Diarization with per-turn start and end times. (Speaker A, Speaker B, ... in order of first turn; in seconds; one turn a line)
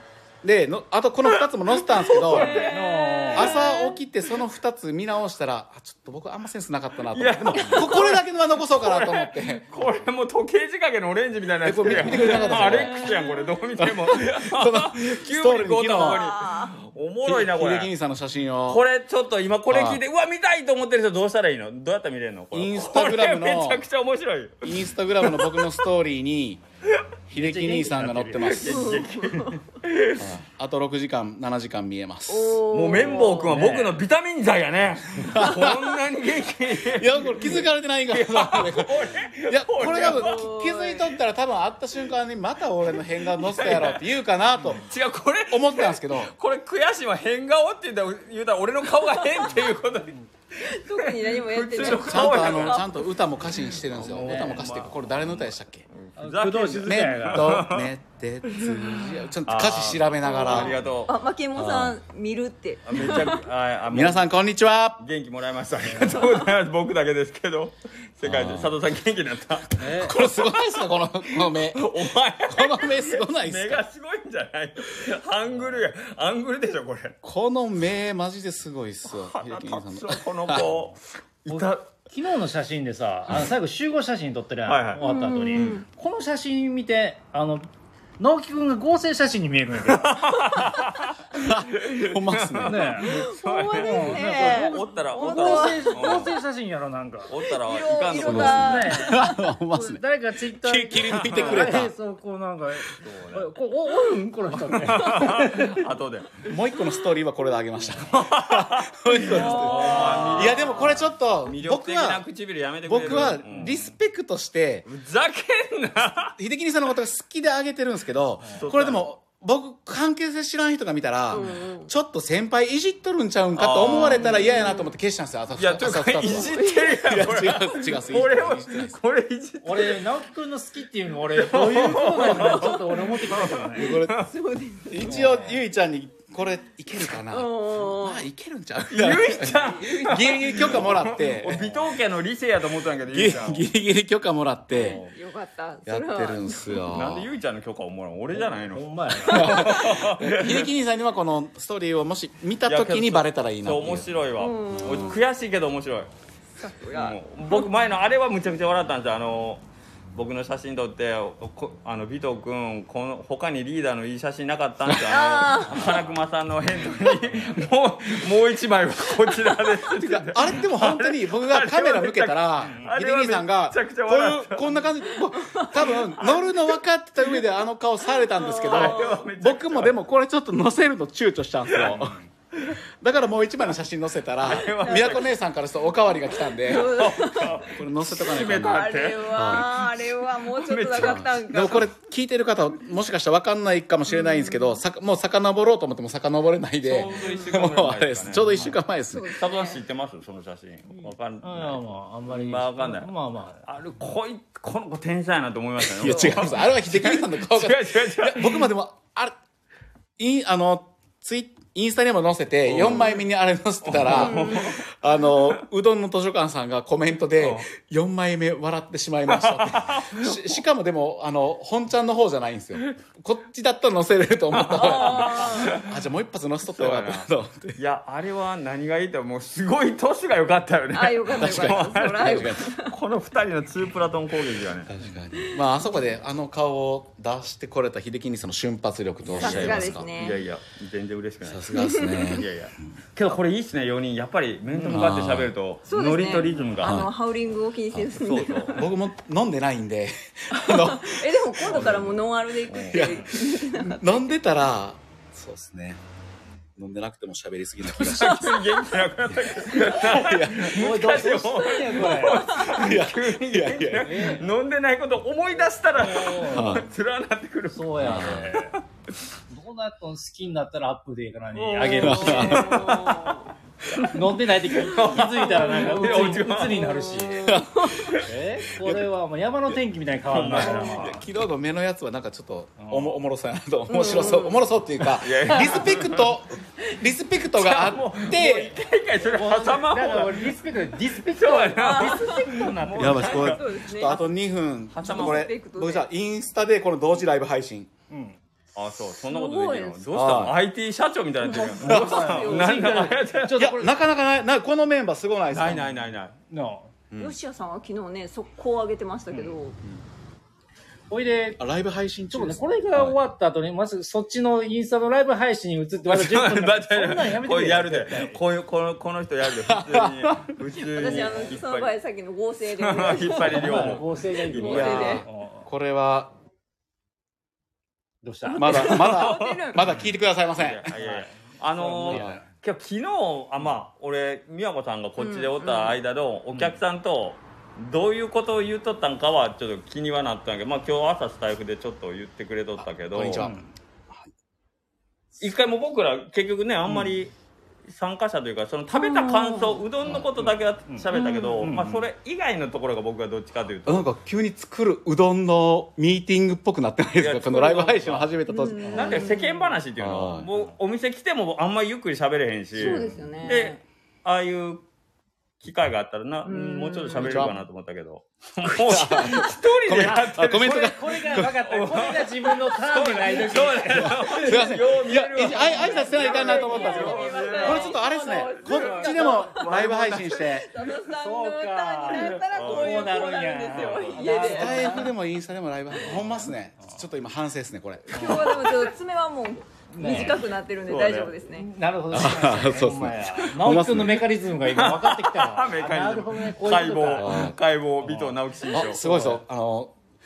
Speaker A: 0.4-2.7
Speaker B: 1.2-3.7
Speaker C: 2.2-4.0
Speaker D: 2.4-3.5
Speaker A: 3.3-9.7
Speaker B: 7.1-17.9
Speaker A: 11.6-13.3
Speaker C: 12.0-13.6
Speaker A: 13.8-16.2
Speaker C: 15.9-16.8
Speaker A: 17.2-18.8
Speaker B: 18.7-25.8
Speaker A: 19.7-20.0
Speaker A: 22.5-23.8
Speaker A: 24.6-26.6
Speaker A: 27.3-29.1
Speaker D: 27.3-28.6
Speaker B: 28.4-30.3
Speaker C: 28.6-29.6
Speaker A: 30.2-32.6
Speaker C: 32.3-33.6
Speaker B: 32.7-40.5
Speaker D: 33.5-34.0
Speaker A: 35.2-35.9
Speaker A: 36.9-44.8
Speaker C: 39.9-41.1
Speaker B: 43.0-50.2
Speaker A: 45.5-46.3
Speaker C: 49.2-49.7
Speaker C: 50.6-53.0
Speaker B: 51.0-52.9
Speaker A: 51.8-55.8
Speaker B: 53.8-57.9
Speaker D: 54.1-54.6
Speaker D: 56.2-57.6
Speaker A: 56.8-60.8
Speaker B: 58.5-61.1
Speaker C: 60.2-63.4
Speaker A: 61.5-62.0
Speaker B: 62.8-64.2
Speaker A: 63.9-65.0
Speaker B: 65.0-69.8
Speaker D: 65.9-66.2
Speaker C: 66.0-66.5
Speaker A: 68.2-68.8
Speaker D: 69.8-70.2
Speaker A: 69.9-73.8
Speaker B: 71.3-77.2
Speaker A: 77.2-80.7
Speaker B: 79.0-81.9
Speaker D: 81.5-90.3
Speaker B: 84.7-85.8
Speaker C: 85.0-85.8
Speaker B: 89.8-91.2
Speaker A: 91.3-93.0
Speaker B: 91.8-96.4
Speaker D: 92.7-93.1
Speaker C: 93.0-96.2
Speaker D: 93.7-97.4
Speaker B: 97.3-98.9
Speaker C: 97.4-99.4
Speaker A: 98.1-101.9
Speaker D: 98.2-105.9
Speaker B: 101.3-101.8
Speaker B: 103.0-103.5
Speaker B: 104.6-106.5
Speaker A: 106.4-112.3
Speaker B: 108.0-113.8
Speaker C: 109.3-110.8
Speaker D: 110.2-110.4
Speaker A: 112.8-114.9
Speaker D: 113.2-113.7
Speaker B: 114.9-116.3
Speaker A: 116.2-129.0
Speaker D: 118.4-118.7
Speaker B: 118.5-119.1
Speaker C: 121.3-121.9
Speaker B: 123.5-124.5
Speaker C: 123.8-124.9
Speaker B: 125.5-130.1
Speaker C: 126.3-127.0
Speaker D: 129.6-133.9
Speaker B: 131.3-134.3
Speaker A: 132.2-132.7
Speaker A: 133.8-134.2
Speaker C: 133.8-135.2
Speaker A: 134.9-141.7
Speaker D: 135.0-135.6
Speaker C: 137.3-138.2
Speaker B: 138.9-143.7
Speaker C: 139.4-140.8
Speaker D: 141.5-142.0
Speaker A: 143.1-145.0
Speaker B: 144.7-145.1
Speaker C: 144.9-146.8
Speaker A: 145.8-147.3
Speaker B: 146.9-150.7
Speaker D: 148.3-149.7
Speaker A: 149.3-154.1
Speaker B: 152.7-156.1
Speaker C: 154.4-155.2
Speaker C: 156.6-157.7
Speaker B: 156.9-174.8
Speaker C: 165.1-166.0
Speaker A: 169.9-182.2
Speaker D: 172.6-172.9
Speaker C: 175.3-175.9
Speaker B: 175.9-176.6
Speaker C: 178.1-179.2
Speaker B: 178.4-180.0
Speaker B: 181.7-182.0
Speaker D: 181.8-182.3
Speaker B: 182.5-182.8
Speaker A: 183.0-189.7
Speaker B: 184.4-185.4
Speaker C: 184.5-185.3
Speaker C: 186.3-187.7
Speaker B: 186.4-191.4
Speaker C: 188.3-191.8
Speaker A: 191.0-199.3
Speaker C: 194.1-194.8
Speaker B: 196.8-198.7
Speaker C: 197.1-197.6
Speaker C: 199.1-199.8
Speaker B: 199.3-208.7
Speaker D: 201.0-203.7
Speaker A: 205.8-209.3
Speaker A: 210.2-227.8
Speaker B: 212.7-213.2
Speaker B: 213.8-215.6
Speaker C: 214.1-214.8
Speaker B: 217.4-217.7
Speaker B: 219.3-220.6
Speaker B: 224.5-226.0
Speaker C: 224.8-225.8
Speaker B: 226.7-234.9
Speaker C: 230.9-232.9
Speaker A: 231.3-232.7
Speaker A: 234.9-240.1
Speaker C: 235.4-236.2
Speaker B: 239.2-247.0
Speaker C: 239.4-240.4
Speaker A: 241.4-242.5
Speaker C: 241.8-242.4
Speaker A: 244.7-245.5
Speaker C: 245.9-248.9
Speaker A: 246.8-247.1
Speaker A: 247.9-252.0
Speaker B: 248.2-248.8
Speaker C: 250.5-254.2
Speaker B: 251.7-253.2
Speaker A: 252.9-256.0
Speaker A: 256.8-258.6
Speaker B: 258.0-268.8
Speaker C: 258.1-258.9
Speaker C: 259.6-260.2
Speaker A: 259.8-260.9
Speaker D: 260.7-262.4
Speaker C: 261.6-262.9
Speaker A: 262.7-264.1
Speaker D: 263.9-264.5
Speaker D: 265.9-266.9
Speaker A: 266.5-266.9
Speaker D: 267.7-268.8
Speaker A: 268.0-268.5
Speaker D: 269.5-272.7
Speaker C: 271.6-273.5
Speaker B: 271.6-277.0
Speaker A: 271.9-272.8
Speaker D: 274.1-277.5
Speaker C: 274.9-278.1
Speaker A: 277.4-278.1
Speaker B: 278.0-278.2
Speaker D: 278.2-281.2
Speaker A: 278.7-279.1
Speaker B: 280.3-281.2
Speaker A: 280.5-288.8
Speaker D: 282.8-283.1
Speaker C: 283.9-284.6
Speaker B: 285.2-286.4
Speaker B: 287.6-290.6
Speaker D: 289.2-293.5
Speaker B: 291.2-294.2
Speaker C: 291.8-294.2
Speaker A: 292.9-297.9
Speaker B: 294.9-295.5
Speaker C: 295.0-296.1
Speaker D: 298.1-298.4
Speaker B: 298.8-303.6
Speaker C: 299.2-300.0
Speaker A: 300.1-300.6
Speaker C: 301.4-303.2
Speaker D: 301.8-303.9
Speaker A: 301.9-302.2
Speaker A: 303.5-305.9
Speaker B: 305.5-306.4
Speaker D: 306.5-306.9
Speaker A: 307.1-307.4
Speaker C: 307.2-309.8
Speaker D: 311.1-311.6
Speaker A: 311.6-313.2
Speaker D: 312.3-318.4
Speaker B: 316.0-321.9
Speaker A: 319.6-320.5
Speaker C: 320.8-325.2
Speaker B: 322.7-325.1
Speaker D: 323.2-325.7
Speaker A: 324.6-326.3
Speaker D: 328.2-328.9
Speaker C: 328.4-329.8
Speaker A: 328.6-330.9
Speaker B: 328.7-329.9
Speaker B: 330.6-343.5
Speaker D: 330.9-332.5
Speaker A: 332.1-332.4
Speaker C: 335.2-336.0
Speaker A: 342.8-343.7
Speaker D: 343.4-343.7
Speaker B: 345.4-347.4
Speaker B: 347.9-354.1
Speaker C: 348.9-349.8
Speaker A: 350.0-350.4
Speaker D: 350.9-352.1
Speaker C: 351.1-351.7
Speaker A: 353.9-359.2
Speaker B: 357.2-358.3
Speaker C: 358.5-359.7
Speaker D: 358.8-359.2
Speaker B: 358.9-364.9
Speaker A: 360.0-360.5
Speaker C: 362.7-363.8
Speaker B: 365.6-370.8
Speaker C: 366.4-367.5
Speaker A: 367.1-367.6
Speaker A: 368.6-371.6
Speaker D: 370.0-374.7
Speaker B: 371.4-378.1
Speaker A: 374.0-380.7
Speaker C: 375.6-385.1
Speaker D: 376.6-377.8
Speaker B: 378.7-380.3
Speaker D: 378.7-379.7
Speaker D: 381.0-385.1
Speaker B: 382.2-384.4
Speaker A: 384.2-388.6
Speaker D: 386.0-386.9
Speaker C: 388.1-391.7
Speaker B: 388.2-388.7
Speaker D: 388.2-388.5
Speaker D: 389.9-390.5
Speaker B: 390.8-391.4
Speaker D: 391.5-397.3
Speaker A: 392.1-394.3
Speaker B: 394.6-399.0
Speaker A: 397.2-397.6
Speaker D: 398.0-399.4
Speaker A: 398.7-399.9